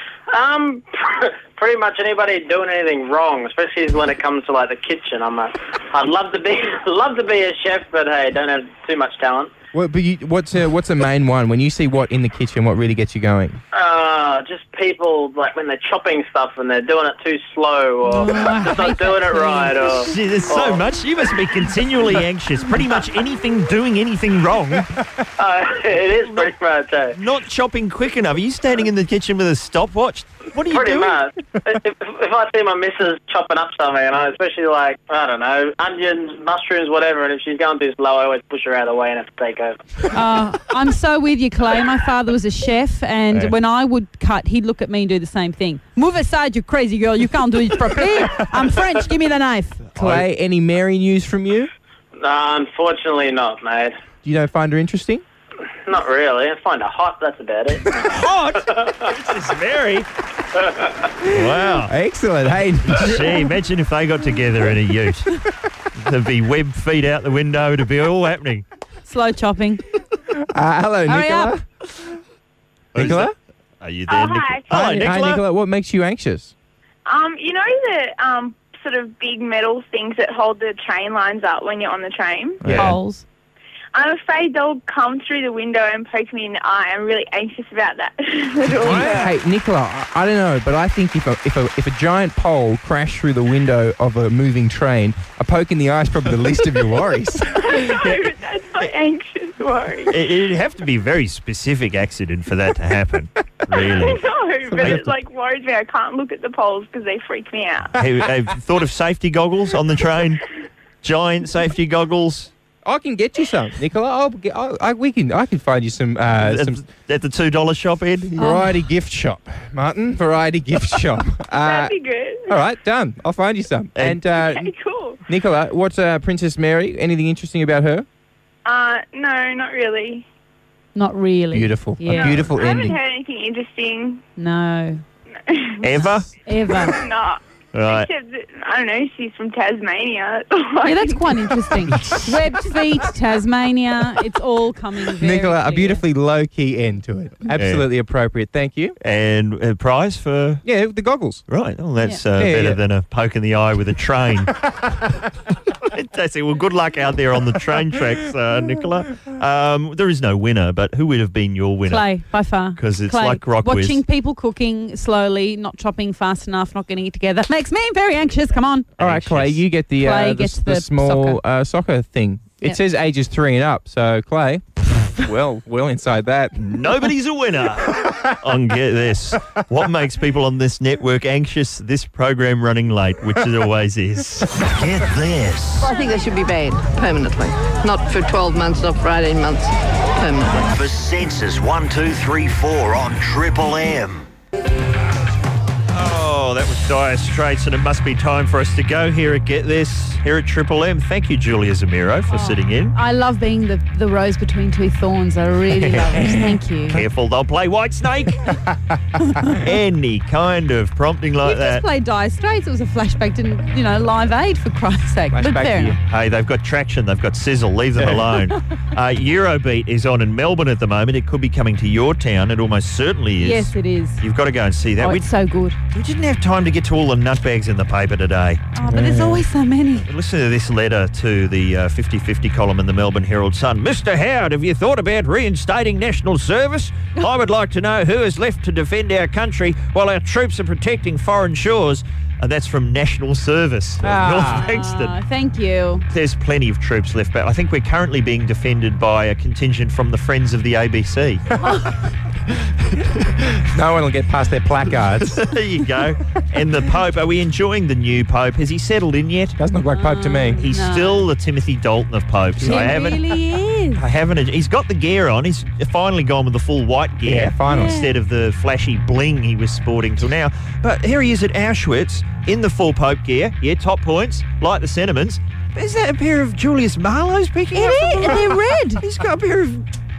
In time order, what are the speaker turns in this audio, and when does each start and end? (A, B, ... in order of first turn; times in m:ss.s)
0:00.3-0:09.5 A
0:09.7-0:13.6 B
0:13.7-0:20.8 A
0:18.1-0:20.1 C
0:19.9-0:25.0 D
0:25.4-0:27.2 A
0:26.1-0:26.5 D
0:27.1-0:31.2 D
0:30.7-0:39.8 A
0:40.1-0:49.8 C
0:50.0-0:50.3 D
0:50.0-0:51.7 B
0:52.2-0:53.9 A
0:54.2-0:55.2 B
0:55.8-0:57.8 A
0:57.9-1:00.1 D
1:01.2-1:01.9 D
1:01.7-1:03.4 B
1:02.9-1:05.4 D
1:06.0-1:08.6 D
1:09.0-1:09.8 C
1:10.5-1:11.6 B
1:11.1-1:11.5 C
1:12.9-1:15.4 D
1:12.9-1:13.3 B
1:14.1-1:14.6 E
1:14.7-1:16.5 B
1:17.0-1:22.6 E
1:22.6-1:23.0 D
1:22.6-1:23.0 B
1:22.8-1:23.2 C
1:23.9-1:29.3 E
1:28.8-1:38.1 B
1:37.6-1:40.2 E
1:40.1-1:44.2 D
1:43.9-1:47.9 E
1:44.7-1:45.1 B
1:48.0-1:50.4 D
1:51.0-1:52.5 D
1:52.8-1:56.8 B
1:56.3-1:58.6 D
1:58.4-2:01.9 B
2:01.6-2:02.5 E
2:02.5-2:04.7 B
2:04.3-2:05.2 E
2:05.3-2:08.1 B
2:08.6-2:10.2 E
2:10.9-2:12.4 C
2:11.5-2:13.0 B
2:12.1-2:14.2 E
2:14.4-2:15.0 C
2:15.5-2:16.1 E
2:15.8-2:16.3 D
2:16.4-2:17.0 C
2:16.8-2:21.6 E
2:17.7-2:18.1 D
2:20.8-2:26.0 C
2:25.1-2:29.0 B
2:27.6-2:27.8 D
2:29.0-2:30.6 D
2:30.6-2:31.4 B
2:31.5-2:35.1 D
2:32.3-2:32.8 B
2:35.8-2:42.1 D
2:41.9-2:48.9 C
2:42.7-2:44.0 D
2:49.0-2:56.7 B
2:49.0-2:49.6 D
2:50.0-2:51.4 C
2:56.6-3:04.7 D
3:04.7-3:05.8 F
3:05.8-3:10.7 G
3:10.6-3:14.3 F
3:15.9-3:22.9 D
3:22.3-3:27.0 C
3:25.7-3:26.6 B
3:26.9-3:28.6 D
3:29.5-3:31.8 D
3:31.4-3:36.0 C
3:35.3-3:36.0 B
3:36.1-3:45.2 D
3:38.0-3:38.4 B
3:43.4-3:44.2 C
3:45.0-3:45.8 C
3:45.9-3:48.6 D
3:48.7-3:50.0 C
3:48.9-3:49.4 B
3:50.0-4:05.1 D
4:04.0-4:04.7 B
4:04.3-4:06.0 C
4:06.1-4:11.4 D
4:11.6-4:12.1 C
4:13.5-4:15.4 B
4:15.2-4:19.6 D
4:19.6-4:20.6 B
4:19.9-4:21.3 C
4:20.6-4:23.2 D
4:22.6-4:23.1 B
4:22.6-4:24.0 C
4:24.0-4:39.9 D
4:27.2-4:28.0 B
4:27.7-4:28.1 C
4:37.7-4:39.0 C